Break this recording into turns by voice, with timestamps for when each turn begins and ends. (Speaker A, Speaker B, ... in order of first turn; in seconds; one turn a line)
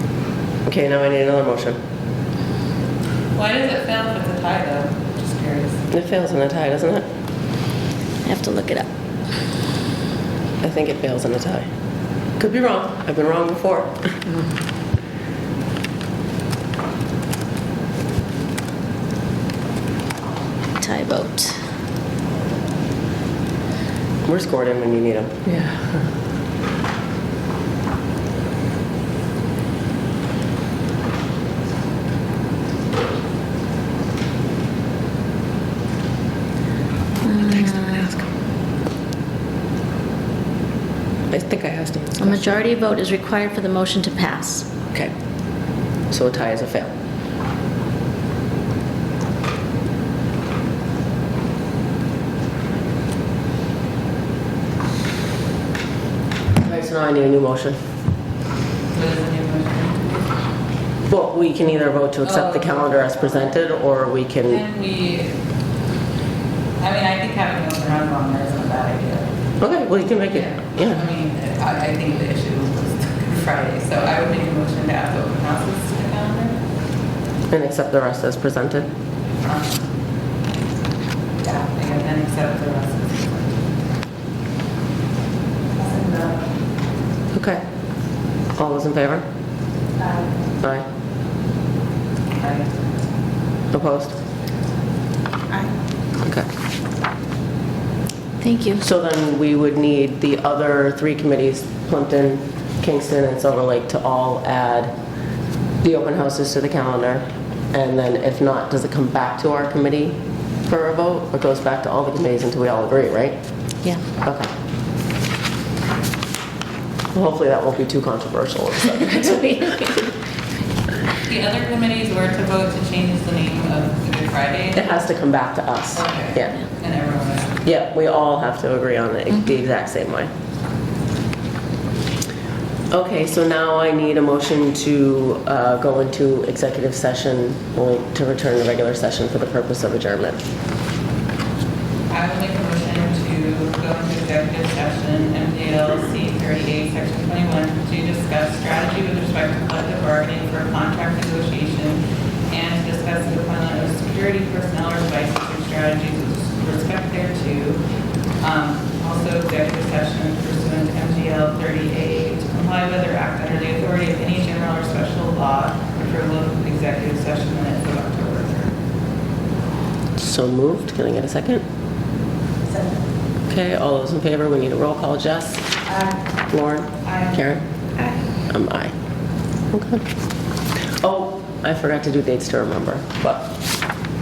Speaker A: 0.7-1.8
Speaker B: 3.3-5.9
Speaker A: 5.9-7.1
Speaker C: 8.2-8.9
Speaker A: 10.6-11.7
Speaker A: 12.4-14.2
Speaker C: 20.8-21.6
Speaker A: 24.2-26.0
Speaker C: 37.2-38.0
Speaker A: 37.8-38.2
Speaker A: 41.3-42.6
Speaker C: 42.2-44.7
Speaker A: 46.1-46.9
Speaker A: 56.6-57.8
Speaker B: 58.9-60.3
Speaker A: 61.1-64.6
Speaker B: 62.2-63.6
Speaker B: 64.5-65.4
Speaker B: 66.8-69.3
Speaker A: 69.6-71.0
Speaker B: 70.2-76.5
Speaker A: 77.5-78.9
Speaker B: 79.4-79.9
Speaker B: 81.4-83.7
Speaker B: 85.8-86.3
Speaker A: 87.3-87.6
Speaker A: 88.5-89.2
Speaker B: 92.4-92.7
Speaker A: 93.7-94.2
Speaker A: 96.2-96.5
Speaker C: 98.4-98.8
Speaker A: 98.8-104.9
Speaker A: 105.8-113.4
Speaker A: 114.1-114.5
Speaker A: 117.1-120.1
Speaker B: 121.2-125.0
Speaker A: 124.7-126.6
Speaker B: 125.9-127.6
Speaker A: 127.6-130.3
Speaker A: 132.9-140.5
Speaker B: 142.1-157.8
Speaker B: 158.4-168.7
Speaker A: 170.2-171.6
Speaker A: 173.5-175.7
Speaker A: 176.5-177.6
Speaker B: 177.0-177.4
Speaker A: 178.5-178.9
Speaker A: 179.7-180.1
Speaker A: 180.9-183.5